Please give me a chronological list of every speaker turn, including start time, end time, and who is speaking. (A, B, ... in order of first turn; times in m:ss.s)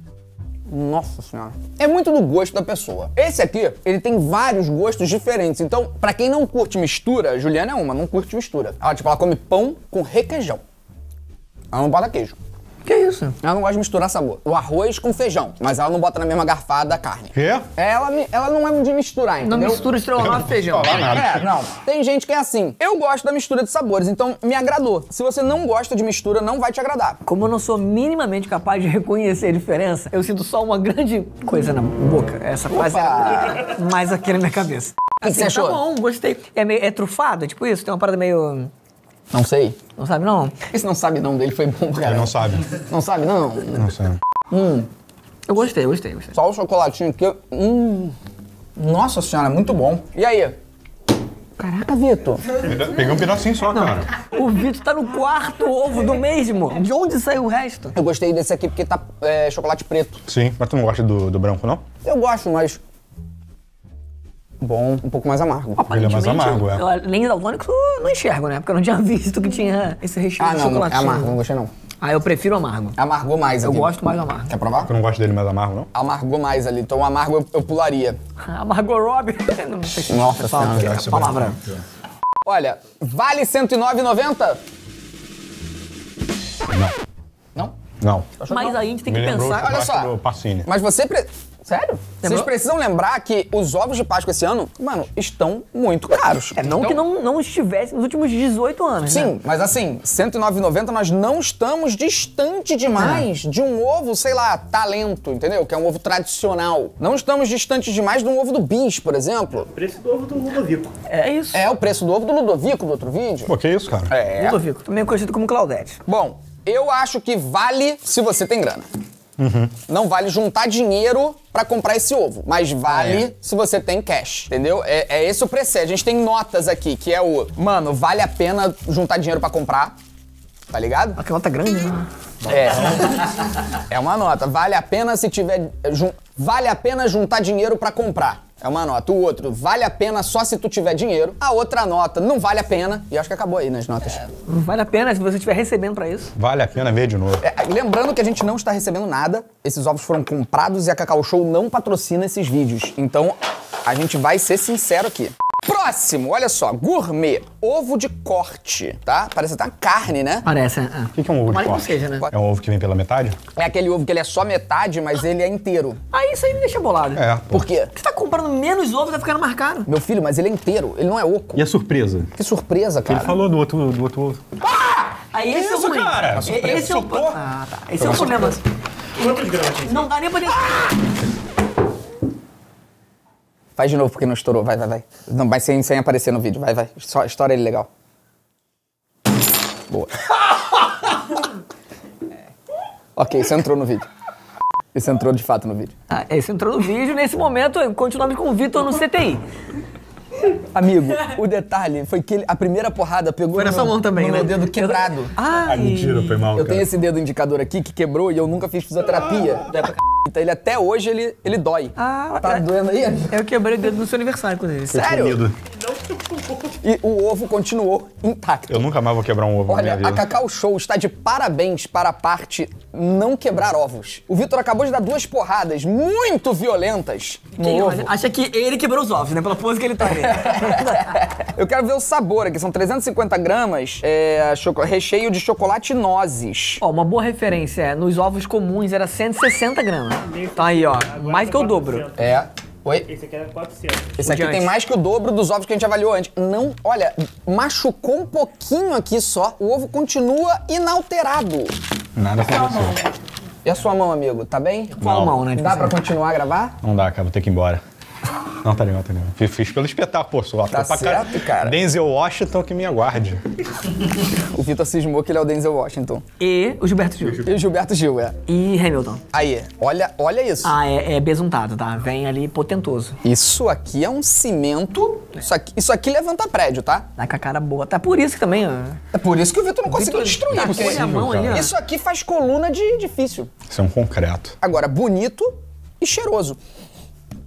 0:00.7-0:10.6 A
0:11.7-0:12.4 A
0:12.8-0:13.4 B
0:13.4-0:19.9 A
0:17.4-0:17.7 C
0:19.4-0:21.0 B
0:20.2-0:21.5 C
0:21.1-0:27.2 A
0:27.2-0:38.7 B
0:32.7-0:33.6 A
0:35.2-0:35.8 A
0:39.3-0:39.8 A
0:40.0-0:40.6 B
0:40.7-0:43.9 A
0:42.0-0:42.6 C
0:43.8-0:44.2 C
0:44.5-0:44.9 A
0:45.5-0:46.3 B
0:46.3-0:48.2 A
0:48.8-0:50.6 A
0:51.6-0:52.5 A
0:52.6-0:54.1 C
0:54.2-0:57.9 B
0:57.9-1:00.2 A
1:00.3-1:01.8 C
1:02.0-1:02.8 A
1:04.6-1:05.9 A
1:05.8-1:11.3 B
1:05.9-1:06.8 C
1:10.4-1:11.7 A
1:12.0-1:13.0 B
1:13.0-1:14.9 A
1:13.6-1:14.5 B
1:14.8-1:15.9 C
1:15.9-1:18.2 A
1:18.5-1:21.6 B
1:20.1-1:21.3 A
1:20.7-1:21.6 C
1:22.4-1:24.6 A
1:26.7-1:27.0 C
1:28.0-1:28.3 C
1:28.4-1:28.8 A
1:28.5-1:29.7 B
1:29.1-1:30.7 C
1:29.6-1:30.1 A
1:30.6-1:37.0 A
1:32.2-1:32.5 B
1:36.6-1:39.3 B
1:39.1-1:49.7 A
1:43.0-1:43.3 B
1:49.7-1:51.0 D
1:51.1-1:51.6 B
1:51.5-1:53.5 A
1:53.5-1:54.1 C
1:54.1-1:54.6 A
1:54.4-1:56.0 B
1:56.1-1:58.9 A
1:59.4-1:59.7 C
1:59.9-2:09.9 A
2:02.9-2:03.2 C
2:10.7-2:11.2 A
2:11.2-2:12.1 B
2:12.5-2:24.3 A
2:24.5-2:26.3 B
2:26.4-2:27.4 C
2:27.4-2:40.5 A
2:40.5-2:42.3 B
2:41.2-2:43.4 C
2:43.6-2:46.0 A
2:46.1-2:47.2 B
2:47.2-2:47.7 C
2:47.5-2:47.9 A
2:48.0-2:49.9 B
2:49.9-2:51.6 A
2:51.6-2:52.3 C
2:52.4-2:53.4 A
2:53.0-2:54.4 C
2:54.7-2:55.1 A
2:55.3-2:58.6 B
2:55.5-2:57.4 C
2:56.3-2:56.9 A
2:58.0-2:58.5 A
2:59.2-3:00.1 D
2:59.8-3:01.0 B
3:03.8-3:07.9 A
3:09.9-3:10.2 A
3:13.2-3:14.1 A
3:14.9-3:15.9 A
3:16.1-3:19.4 B
3:20.7-3:25.4 A
3:23.6-3:26.5 B
3:25.6-3:26.9 C
3:26.5-3:33.4 A
3:32.0-3:32.6 B
3:33.3-3:35.0 B
3:34.9-3:35.6 C
3:34.9-3:35.4 A
3:35.8-3:36.7 D
3:36.8-3:38.9 A
3:38.7-3:40.2 C
3:39.7-3:48.1 A
3:47.6-3:51.3 B
3:50.1-3:56.8 A
3:56.8-4:02.1 B
4:00.2-4:02.4 D
4:02.2-4:03.1 A
4:03.0-4:04.2 D
4:04.2-4:11.8 A
4:04.2-4:04.7 B
4:12.2-4:13.0 C
4:13.6-4:15.0 A
4:15.0-4:16.0 B
4:15.0-4:15.4 C
4:15.5-4:16.8 A
4:16.8-4:17.8 C
4:18.6-4:23.4 C
4:20.7-4:21.8 A
4:24.3-4:26.2 A
4:26.4-4:27.5 B
4:27.4-4:28.4 A
4:28.5-4:29.2 B
4:29.3-4:30.7 A
4:30.6-4:33.2 B
4:33.2-4:37.1 A
4:37.2-4:39.0 B
4:39.1-4:43.5 A
4:39.9-4:41.7 B
4:40.5-4:41.6 C
4:43.7-4:44.5 C
4:44.6-4:46.6 A